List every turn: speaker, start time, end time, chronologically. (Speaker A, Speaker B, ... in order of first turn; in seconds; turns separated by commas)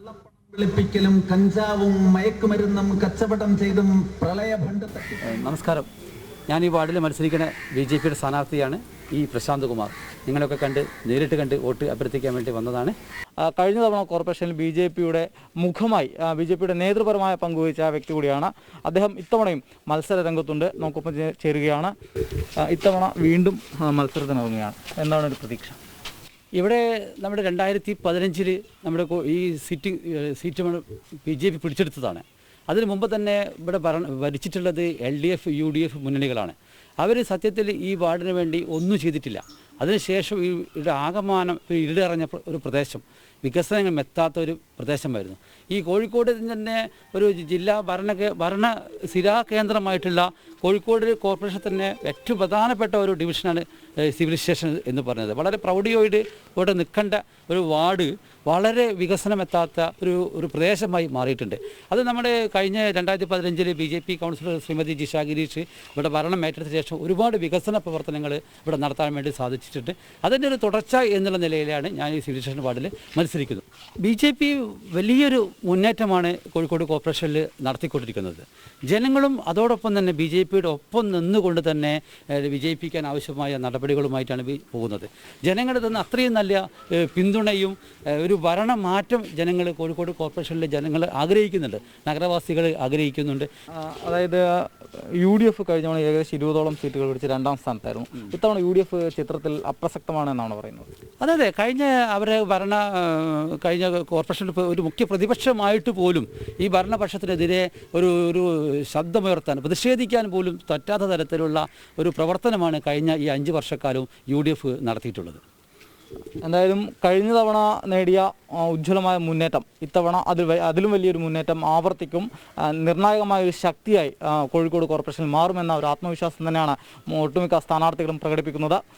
Speaker A: 0.5-5.1, Speaker B: 3.5-3.9, Speaker C: 5.2-5.9, Speaker C: 6.5-12.9, Speaker B: 13.4-21.9, Speaker B: 22.6-25.8, Speaker C: 26.6-93.5, Speaker B: 93.8-100.9, Speaker C: 101.2-115.4, Speaker B: 116.4-128.8